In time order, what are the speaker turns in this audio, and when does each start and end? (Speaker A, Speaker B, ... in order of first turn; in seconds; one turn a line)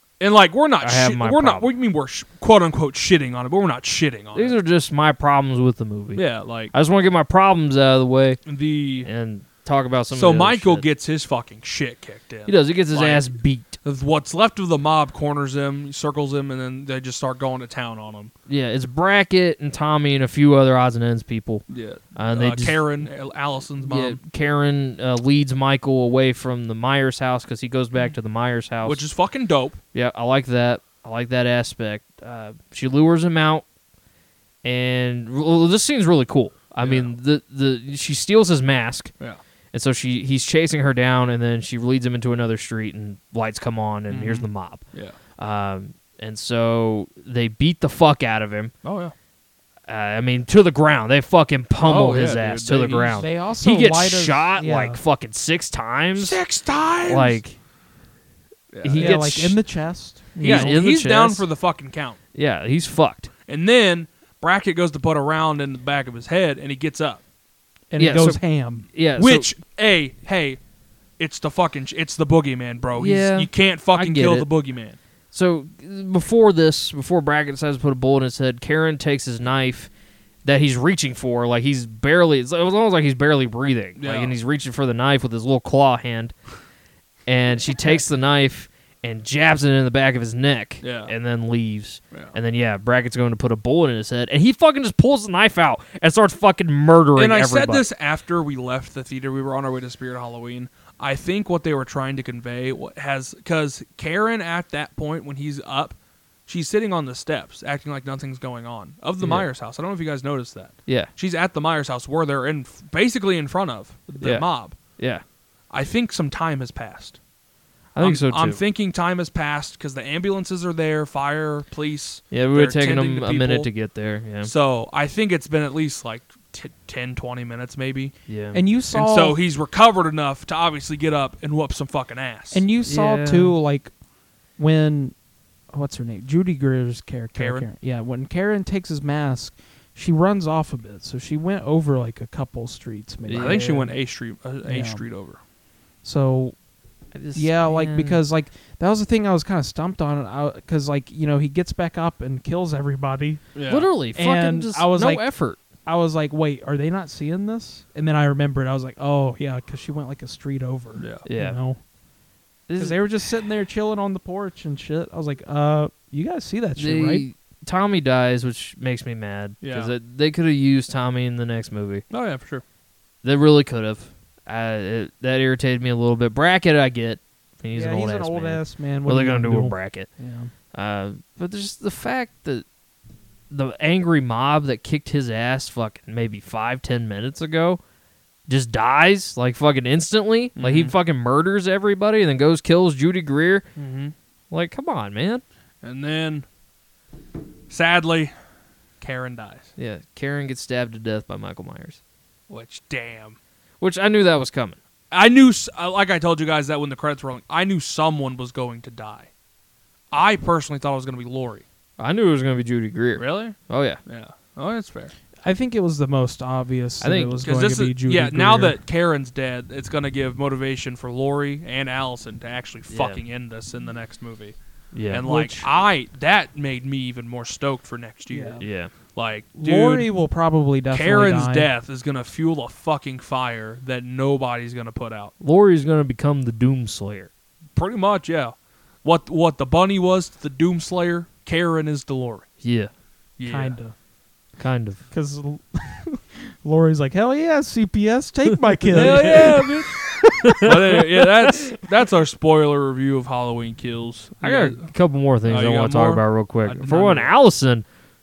Speaker A: 0.2-4.6
Speaker B: 0.8-1.7
Speaker B: 4.3-8.4
Speaker A: 6.1-6.7
Speaker A: 8.4-9.1
Speaker B: 9.0-10.8
Speaker A: 10.1-13.3
Speaker B: 12.4-13.8
Speaker A: 13.8-18.3
Speaker B: 18.5-23.1
Speaker A: 21.7-24.2
Speaker B: 23.8-29.0
Speaker A: 28.8-29.8
Speaker B: 29.9-33.6
Speaker B: 34.6-39.1
Speaker A: 36.8-37.1
Speaker B: 39.7-44.8
Speaker A: 44.1-45.1
Speaker B: 45.4-48.7
Speaker A: 48.8-49.1
Speaker B: 49.9-56.4
Speaker A: 51.8-53.3
Speaker C: 53.2-55.0
Speaker A: 56.2-57.4
Speaker B: 57.0-57.6
Speaker A: 58.7-59.2
Speaker B: 58.8-59.6
Speaker C: 58.9-60.7
Speaker B: 60.4-61.5
Speaker A: 60.4-62.2
Speaker B: 62.3-63.3
Speaker A: 63.5-67.2
Speaker C: 67.9-68.8
Speaker B: 68.0-69.5
Speaker A: 69.2-70.6
Speaker A: 71.2-75.0
Speaker B: 73.0-74.5
Speaker B: 75.3-79.9
Speaker B: 80.4-86.3
Speaker A: 84.0-84.3
Speaker B: 87.3-97.8
Speaker A: 90.8-91.1
Speaker A: 97.2-106.0
Speaker A: 106.5-114.8
Speaker B: 109.2-109.5
Speaker B: 114.2-115.2
Speaker A: 115.7-117.2
Speaker B: 117.9-118.6
Speaker A: 118.0-123.7
Speaker B: 122.3-124.5
Speaker A: 124.4-128.1
Speaker B: 128.3-128.6
Speaker C: 128.5-129.4
Speaker A: 128.9-132.6
Speaker C: 132.5-133.9
Speaker B: 132.8-133.5
Speaker C: 134.6-135.2
Speaker C: 135.7-143.7
Speaker A: 137.3-137.7
Speaker B: 143.2-143.9
Speaker A: 143.3-145.4
Speaker C: 144.6-145.0
Speaker C: 146.0-146.6
Speaker B: 147.1-148.2
Speaker C: 147.3-153.5
Speaker A: 153.5-153.9
Speaker B: 153.7-155.6
Speaker C: 154.1-161.8
Speaker A: 160.9-161.2
Speaker B: 161.2-161.6
Speaker B: 162.7-163.0
Speaker C: 162.8-167.2
Speaker B: 166.7-172.0
Speaker A: 169.6-169.9
Speaker A: 172.1-172.6
Speaker B: 173.2-180.1
Speaker C: 177.7-180.5
Speaker B: 180.7-182.6
Speaker B: 183.5-187.8
Speaker B: 188.5-193.7
Speaker A: 190.6-190.9
Speaker A: 193.8-194.1
Speaker B: 194.5-195.4
Speaker A: 195.8-196.4
Speaker A: 197.7-198.3
Speaker A: 199.0-199.7
Speaker B: 199.8-202.0
Speaker A: 202.5-203.4
Speaker B: 203.8-204.8
Speaker A: 205.1-209.3
Speaker A: 210.1-211.6
Speaker B: 212.0-214.0
Speaker A: 213.2-215.1
Speaker C: 215.4-218.8
Speaker B: 217.0-217.4
Speaker A: 217.4-224.6
Speaker B: 222.9-223.2
Speaker B: 224.9-225.7
Speaker A: 225.1-230.1
Speaker C: 228.3-228.6
Speaker B: 228.6-228.9
Speaker C: 229.6-231.7
Speaker A: 230.9-235.3
Speaker B: 235.4-237.3
Speaker A: 237.8-242.5
Speaker B: 242.6-242.9
Speaker A: 243.4-243.8
Speaker C: 243.4-243.9
Speaker B: 244.6-245.0
Speaker C: 245.1-249.7
Speaker B: 248.9-249.7
Speaker A: 248.9-250.0
Speaker B: 250.4-251.0
Speaker A: 250.6-254.9
Speaker B: 254.4-257.8
Speaker A: 255.4-257.3